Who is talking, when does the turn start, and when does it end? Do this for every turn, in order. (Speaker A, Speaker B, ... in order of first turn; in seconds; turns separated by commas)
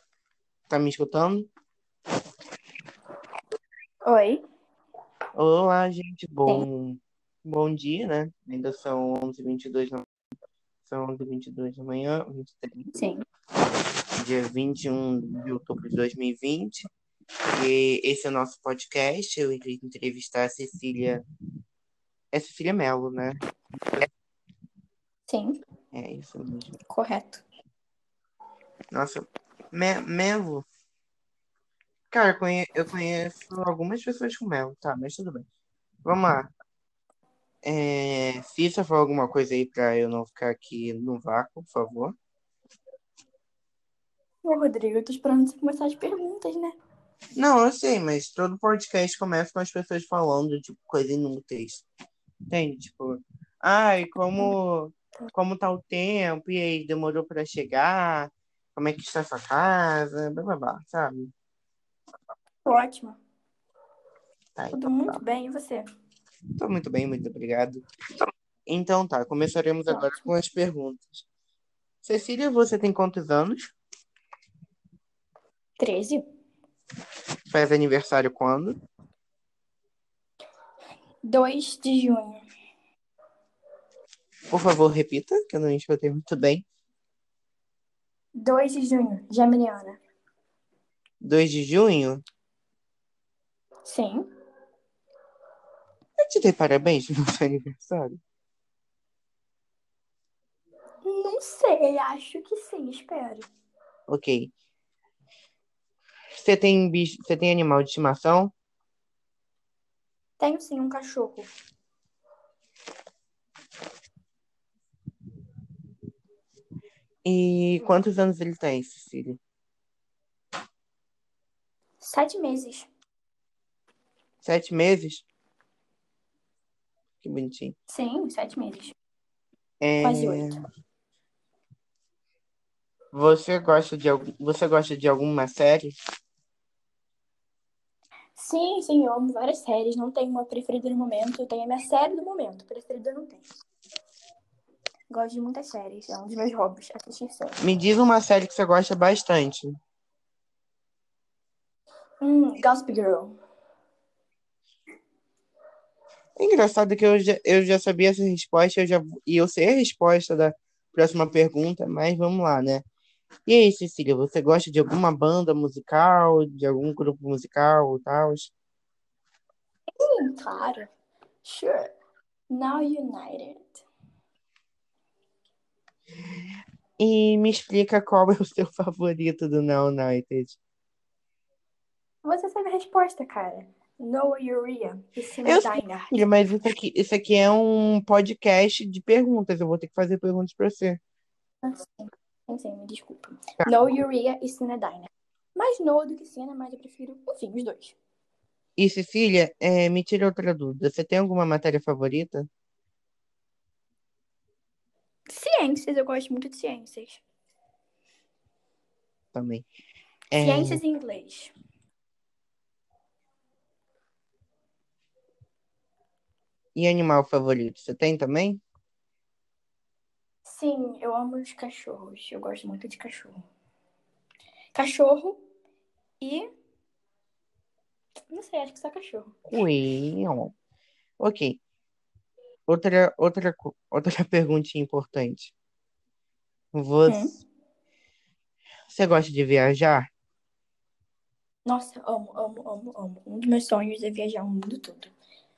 Speaker A: 0.7-1.5, Speaker B: 4.0-4.4, Speaker A: 5.4-10.1, Speaker A: 10.8-12.9, Speaker B: 12.9-13.2, Speaker A: 14.2-16.9, Speaker A: 17.5-21.2, Speaker A: 22.3-23.4, Speaker B: 25.3-25.6, Speaker A: 25.9-26.7, Speaker B: 26.9-27.4, Speaker A: 28.9-30.6, Speaker A: 32.1-35.5, Speaker A: 36.0-36.5, Speaker A: 37.6-42.1, Speaker B: 44.4-46.8, Speaker A: 47.4-51.8, Speaker A: 52.5-61.3, Speaker B: 62.6-63.2, Speaker A: 64.5-65.2, Speaker B: 64.7-65.8, Speaker A: 66.6-67.8, Speaker A: 68.7-71.2, Speaker B: 69.9-70.2, Speaker A: 72.0-73.7, Speaker B: 75.8-76.2, Speaker A: 77.5-78.8, Speaker B: 81.2-82.4, Speaker A: 84.5-86.6, Speaker B: 88.3-90.0, Speaker A: 91.2-92.2, Speaker B: 93.8-94.3, Speaker A: 96.2-98.2, Speaker B: 101.0-103.5, Speaker A: 104.1-104.5, Speaker A: 106.3-108.5, Speaker B: 110.4-111.5, Speaker A: 117.2-119.4, Speaker B: 122.0-122.9, Speaker A: 124.4-125.2, Speaker A: 127.2-127.7, Speaker B: 127.9-128.9, Speaker A: 129.8-130.6, Speaker B: 130.0-130.6, Speaker A: 133.1-135.9, Speaker B: 138.3-143.4, Speaker B: 145.1-147.6, Speaker A: 147.6-149.8, Speaker B: 152.2-153.4, Speaker A: 156.4-162.8, Speaker A: 163.5-168.5, Speaker B: 170.0-170.9, Speaker B: 171.4-171.9, Speaker B: 172.5-173.8, Speaker A: 177.0-180.6, Speaker B: 182.2-186.1, Speaker A: 185.4-191.0, Speaker B: 191.6-197.9, Speaker A: 198.8-202.5, Speaker B: 205.3-207.2, Speaker A: 209.3-209.7, Speaker A: 210.3-210.8, Speaker B: 210.4-211.5, Speaker A: 216.8-218.6, Speaker B: 220.4-223.4, Speaker B: 224.7-225.4, Speaker B: 226.2-226.5, Speaker B: 228.3-229.4, Speaker A: 229.5-230.5, Speaker A: 231.2-231.6, Speaker A: 232.7-235.5, Speaker A: 236.7-237.3, Speaker B: 237.1-237.4, Speaker A: 238.9-240.1, Speaker B: 241.6-245.1